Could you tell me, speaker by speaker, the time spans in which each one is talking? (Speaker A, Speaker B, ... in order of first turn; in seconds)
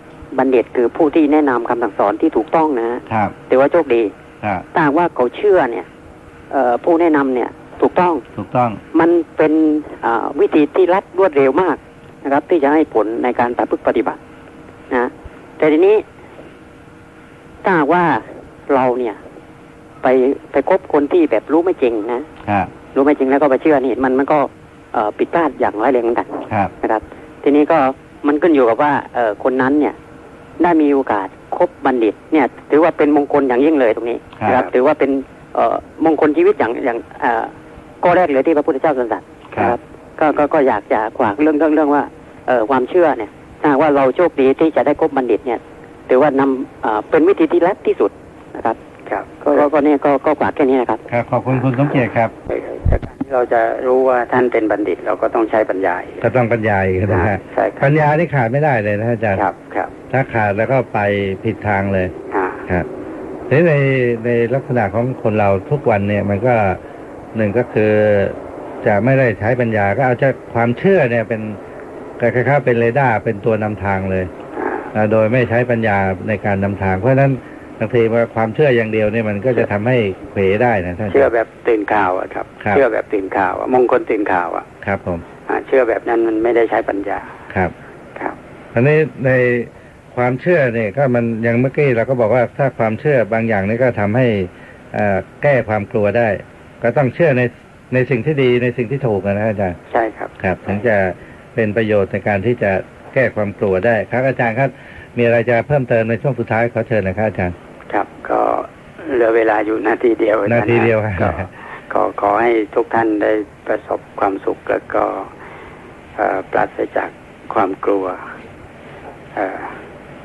Speaker A: 0.3-4.1, 4.7-5.9, 6.5-8.2, 8.9-14.2, 14.9-16.0, 17.6-19.2, 20.0-22.3, 22.9-30.0, 30.6-48.8, 49.5-51.0
Speaker B: 3.1-3.4, 8.3-8.8, 22.4-22.7, 34.4-34.6, 51.1-52.3, 56.2-59.4, 60.1-62.1, 63.5-66.8, 67.3-71.6, 72.2-74.3, 74.9-81.3, 84.8-85.2, 88.7-99.8, 100.4-107.5, 110.5-111.5
Speaker C: 49.1-49.6, 52.5-56.2, 57.1-58.0, 59.3-59.9, 62.3-62.6, 74.5-74.9, 81.1-84.7, 85.5-87.3, 99.9-100.3, 107.9-115.3, 116.2-118.2, 119.3-119.7